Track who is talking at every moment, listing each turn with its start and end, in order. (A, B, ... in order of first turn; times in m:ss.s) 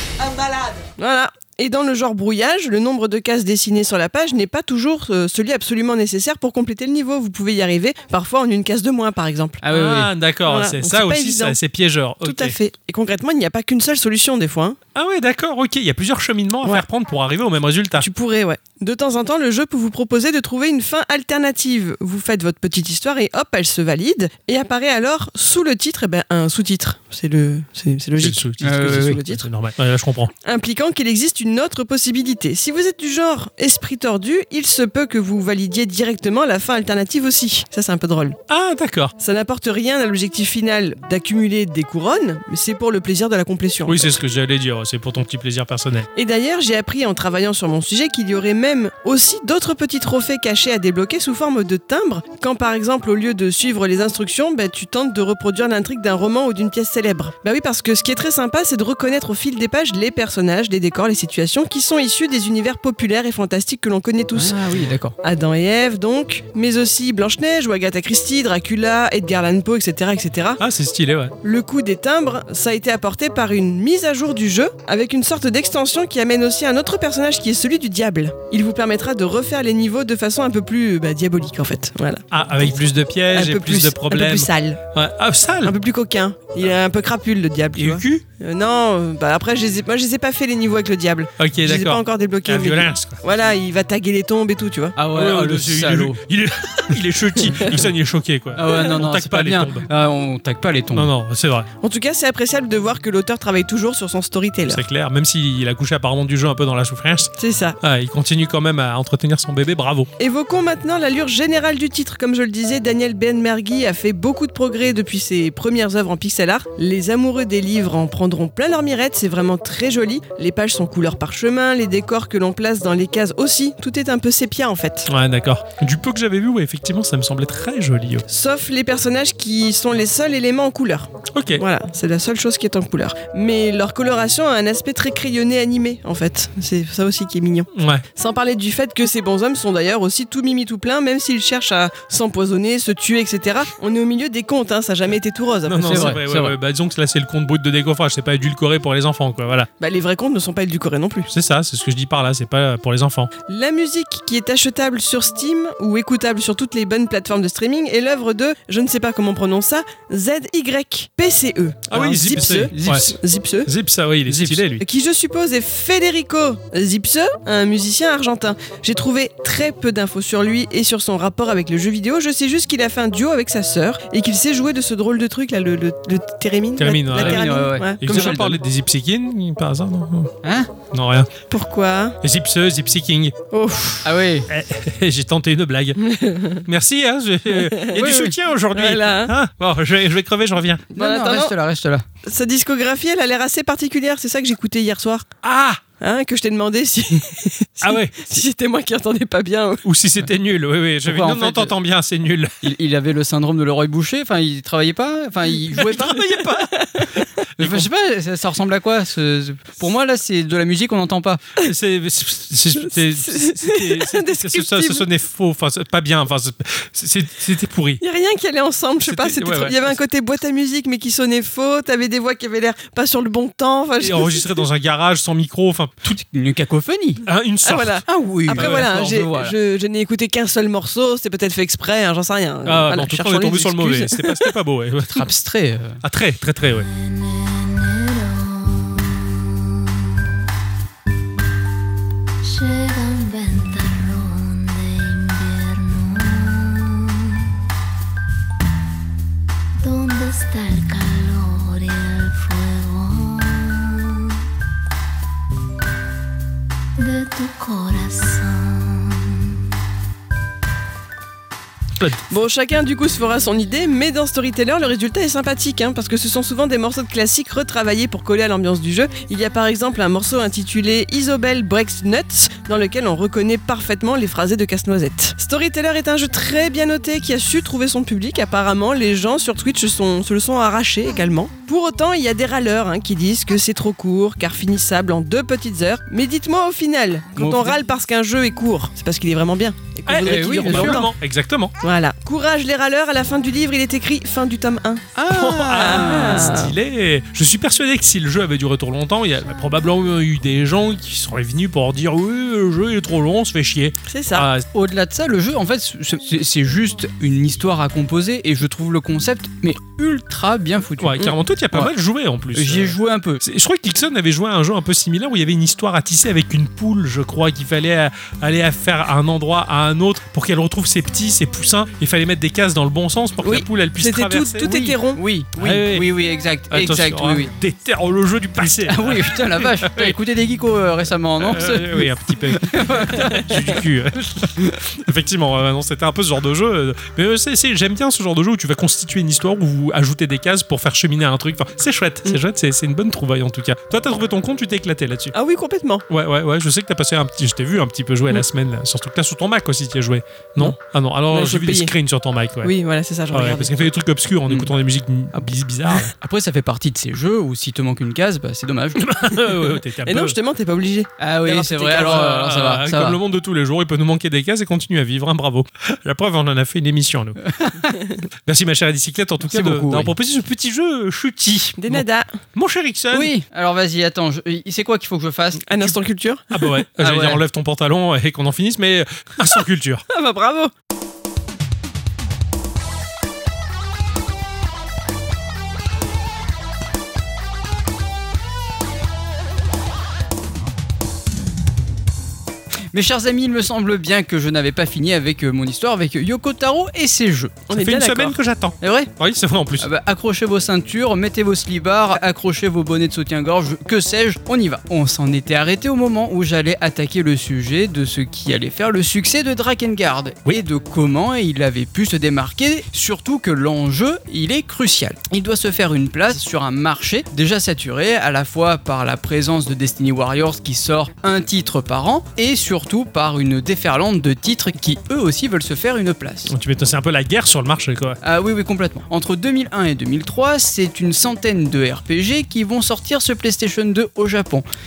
0:01.0-0:09.6 A
0:09.6-0:10.1 B
0:09.7-0:12.6 C
0:10.5-0:11.6 A
0:12.2-0:14.8 A
0:15.0-0:18.1 C
0:18.0-0:29.5 A
0:28.2-0:30.3 C
0:28.6-0:29.2 B
0:30.4-0:38.4 A
0:38.5-0:39.1 C
0:39.2-0:44.1 A
0:43.9-0:46.1 C
0:46.2-1:04.6 A
1:04.4-1:05.2 B
1:05.2-1:10.6 A
1:10.6-1:11.4 C
1:11.4-1:22.7 A
1:22.3-1:25.8 C
1:23.3-1:24.8 A
1:25.6-1:35.0 A
1:27.8-1:28.2 C
1:31.4-1:33.2 C
1:35.0-1:36.2 B
1:35.1-1:39.9 C
1:38.6-1:41.1 B
1:40.9-1:41.7 C
1:41.8-1:44.8 A
1:44.7-1:47.3 C
1:47.4-1:47.8 A
1:47.8-1:50.1 C
1:50.2-2:05.1 A
2:05.1-2:08.2 C
2:08.3-2:26.2 A
2:11.3-2:11.6 C
2:17.8-2:18.0 C
2:25.7-2:29.7 C
2:25.9-2:26.6 B
2:29.8-2:31.3 A
2:31.3-2:33.3 C
2:33.5-2:43.7 A
2:41.9-2:44.8 C
2:41.9-2:43.2 B
2:44.3-2:44.6 B
2:44.8-2:58.4 A
2:56.8-3:00.3 C
2:57.1-2:58.6 B
3:00.4-3:00.7 B
3:00.9-3:01.3 C
3:01.5-3:02.2 A
3:02.2-3:03.4 C
3:03.5-3:04.1 A
3:04.0-3:04.5 B
3:04.5-3:06.0 C
3:06.0-3:06.6 A
3:06.6-3:10.9 C
3:07.5-3:08.1 A
3:07.9-3:08.3 B
3:08.7-3:09.3 A
3:10.9-3:11.6 A
3:11.0-3:12.0 B
3:12.2-3:15.3 A
3:15.4-3:15.8 C
3:16.0-3:19.8 A
3:17.8-3:18.3 C
3:19.8-3:22.6 C
3:21.0-3:21.8 B
3:22.6-3:26.4 B
3:25.8-3:27.0 C
3:26.2-3:27.2 A
3:27.6-3:27.9 C
3:27.6-3:31.4 B
3:31.6-3:38.0 C
3:32.9-3:35.1 A
3:38.0-3:44.6 A
3:39.0-3:40.0 C
3:44.0-3:46.2 C
3:46.1-3:47.2 B
3:47.2-3:48.9 C
3:47.6-3:54.4 A
3:48.1-3:49.6 B
3:52.6-3:55.3 C
3:55.1-3:56.0 B
3:56.0-3:56.9 C
3:56.8-4:00.3 D
4:02.4-4:07.6 D
4:09.8-4:14.4 D
4:17.0-4:19.6 D
4:22.3-4:51.1 A
4:47.4-4:47.8 B
4:50.1-4:51.7 C
4:50.2-4:51.0 B
4:51.8-4:55.0 A
4:55.2-4:56.6 B
4:55.3-5:04.6 C
4:55.7-4:56.8 A
5:04.1-5:04.5 A
5:04.7-5:11.9 B
5:11.0-5:24.7 C
5:12.5-5:13.4 B
5:23.4-5:25.2 A
5:24.6-5:27.5 B
5:25.6-5:26.1 C
5:26.7-5:30.2 C
5:28.8-5:33.5 B
5:31.4-5:45.3 C
5:45.3-5:46.0 A
5:46.1-5:52.7 C
5:51.3-5:51.9 A
5:52.6-5:53.8 A
5:53.3-5:56.1 C
5:56.2-5:59.2 B
5:59.0-6:00.4 C
6:00.0-6:02.2 A
6:01.2-6:03.2 B
6:01.8-6:07.4 C
6:07.4-6:08.0 B
6:08.5-6:13.3 C
6:09.4-6:10.1 B
6:11.8-6:12.3 A
6:13.1-6:15.6 B
6:15.7-6:16.5 A
6:16.5-6:20.0 C
6:17.0-6:17.4 B
6:20.1-6:20.7 A
6:32.9-6:37.6 B
6:37.7-6:38.4 A
6:37.7-6:39.9 C
6:38.8-6:39.1 B
6:39.8-7:06.5 B
7:06.5-7:08.2 C
7:08.2-7:14.7 B